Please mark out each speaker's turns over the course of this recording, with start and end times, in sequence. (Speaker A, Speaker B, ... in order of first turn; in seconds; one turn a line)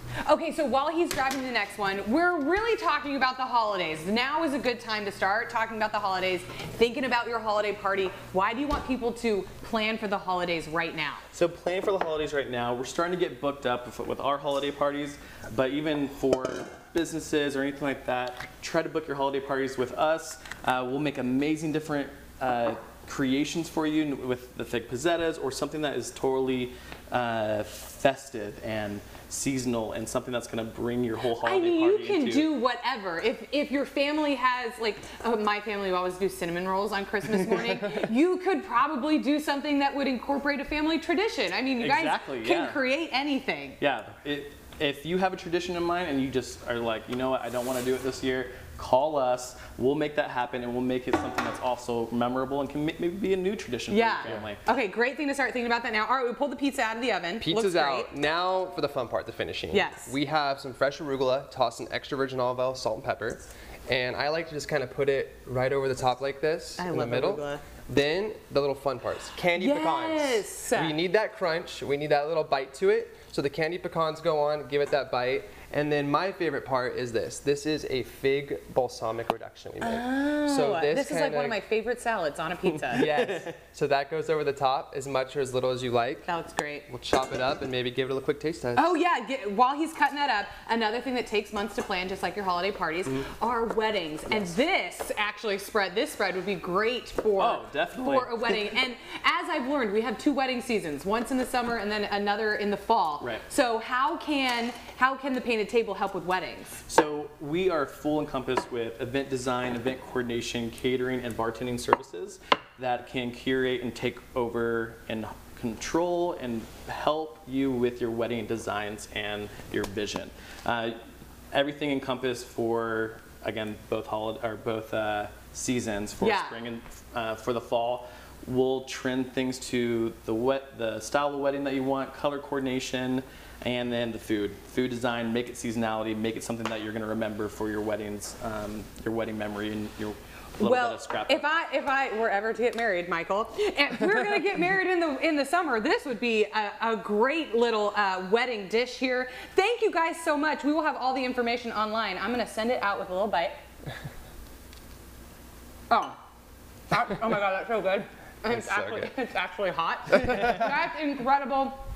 Speaker A: 0.2-11.2
Speaker B: 11.3-32.5
Speaker A: 31.4-43.8
Speaker B: 41.8-42.8
Speaker B: 43.8-54.6
Speaker A: 53.9-58.1
Speaker C: 57.4-81.6
Speaker A: 59.7-60.1
Speaker A: 66.8-67.6
Speaker A: 69.5-71.0
Speaker A: 79.8-83.1
Speaker C: 82.9-86.3
Speaker B: 83.0-83.5
Speaker A: 86.3-86.8
Speaker C: 86.9-88.9
Speaker A: 88.8-106.8
Speaker B: 97.4-98.6
Speaker B: 106.9-121.0
Speaker B: 121.5-141.5
Speaker A: 126.2-126.6
Speaker A: 140.6-153.6
Speaker A: 155.9-156.2
Speaker A: 156.9-161.8
Speaker C: 158.5-159.1
Speaker C: 160.1-160.7